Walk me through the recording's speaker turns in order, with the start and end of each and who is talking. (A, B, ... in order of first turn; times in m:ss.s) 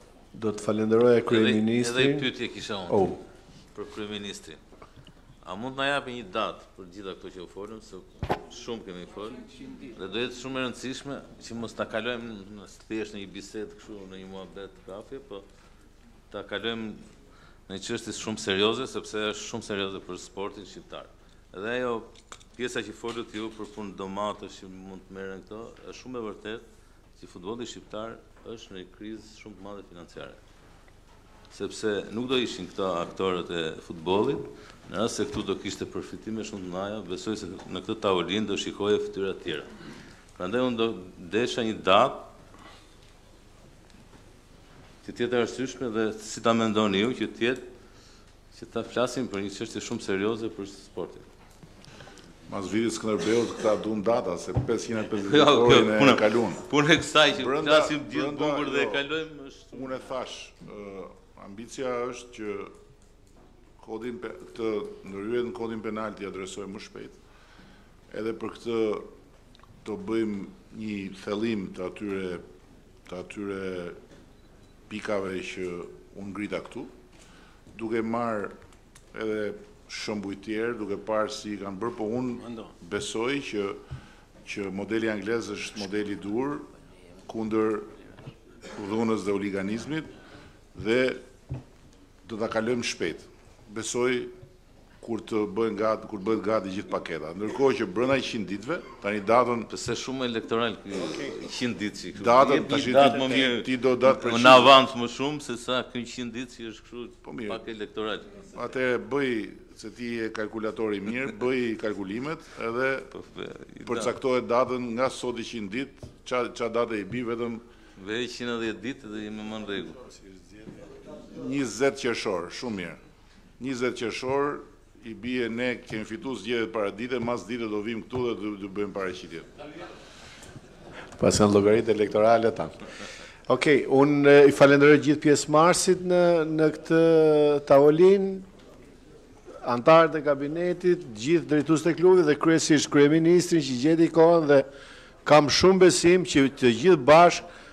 0:00.3-0:02.3 A
0:01.3-0:03.2 B
0:02.9-0:03.2 A
0:03.8-0:04.6 B
0:05.4-0:15.4 B
0:16.3-0:17.0 B
0:17.7-0:26.6 B
0:27.2-0:30.4 B
0:31.5-0:39.7 B
0:40.4-0:42.3 B
0:45.0-0:47.6 B
0:48.5-0:51.2 B
0:52.5-0:56.7 C
0:55.1-1:00.0 B
0:57.4-0:59.0 C
0:59.7-1:02.7 C
1:03.8-1:07.2 C
1:08.1-1:09.1 C
1:09.8-1:12.4 C
1:13.1-1:14.0 C
1:14.9-1:16.9 C
1:17.7-1:18.6 C
1:19.1-1:23.8 C
1:24.4-1:26.7 C
1:27.3-1:27.9 C
1:28.7-1:30.1 C
1:30.7-1:31.2 C
1:32.2-1:34.3 C
1:35.0-1:39.7 C
1:39.7-1:48.5 B
1:42.2-1:44.8 C
1:47.2-1:47.6 C
1:48.5-1:53.1 C
1:53.1-1:54.2 B
1:53.8-1:57.6 C
1:58.0-2:00.1 B
2:01.2-2:03.0 C
2:03.6-2:09.5 C
2:11.2-2:12.8 A
2:13.5-2:18.4 A
2:19.6-2:24.7 A
2:25.2-2:27.4 A